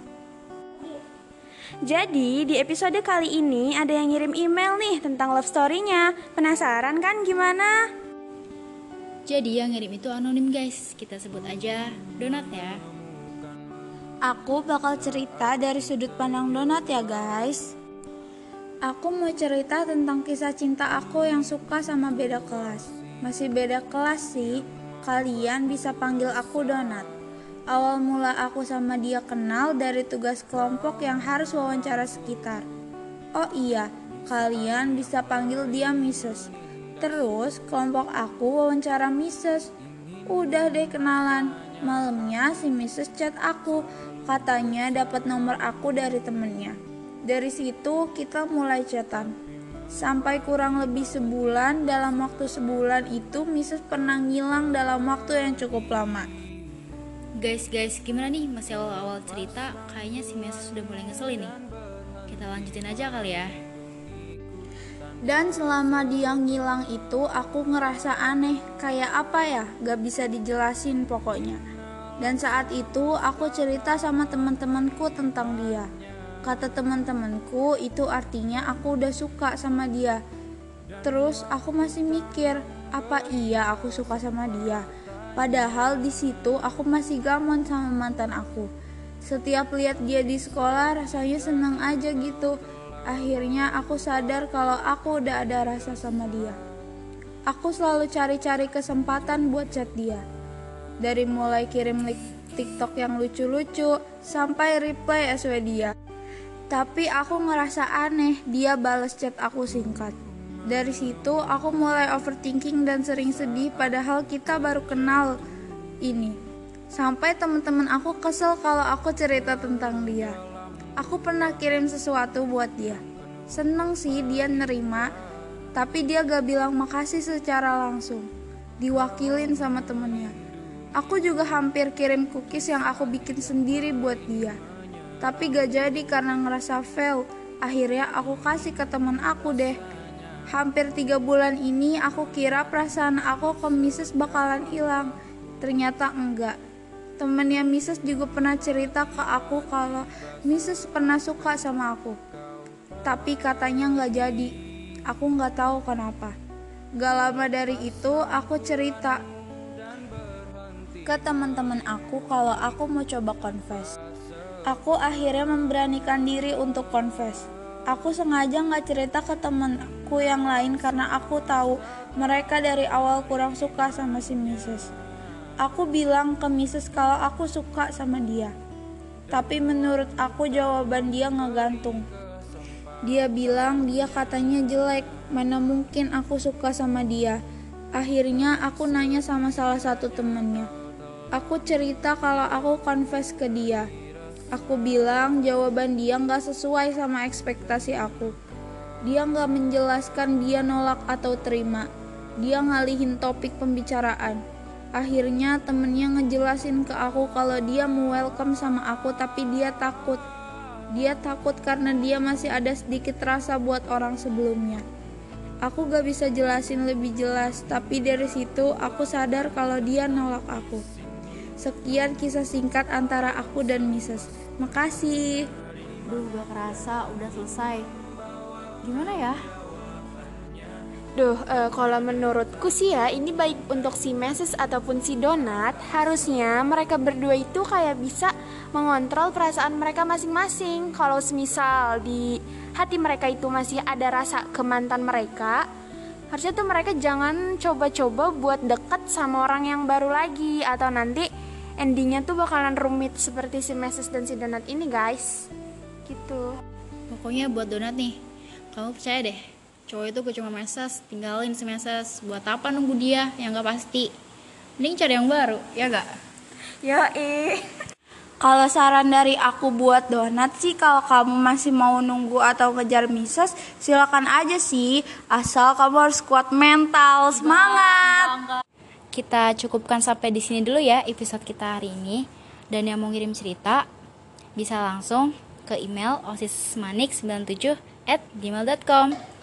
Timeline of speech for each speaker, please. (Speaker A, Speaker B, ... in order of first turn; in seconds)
Speaker A: 1.8-7.9, 231.2-245.7, 246.3-255.5, 256.1-256.5, 266.8-267.7
Speaker B: 9.3-12.8, 57.4-61.5, 62.3-63.5, 226.1-227.9, 228.8-229.4, 257.1-258.2, 258.7-264.1, 264.8-266.1, 277.5-278.4, 279.1-283.9, 284.6-289.1
Speaker C: 14.3-17.7, 18.9-27.1, 27.7-32.7, 33.4-39.7, 40.3-49.3, 49.9-56.3, 65.3-71.6, 72.2-75.9, 76.4-80.2, 81.0-84.8, 85.4-88.7, 89.2-92.6, 93.1-96.6, 97.5-100.2, 101.0-105.9, 106.7-110.2, 110.7-115.4, 116.0-116.4, 116.9-120.4, 121.0-125.1, 125.8-128.3, 128.8-130.3, 131.0-134.6, 135.2-139.8, 140.5-146.6, 147.2-152.2, 153.1-154.5, 155.1-156.3, 157.0-159.2, 161.0-163.9, 164.7-174.9, 175.6-178.5, 179.3-182.0, 183.1-187.4, 188.0-190.7, 191.3-193.9, 194.5-198.3, 199.1-201.9, 202.4-204.4, 205.0-210.2, 210.9-214.8, 215.6-220.8, 221.6-225.5, 268.4-278.4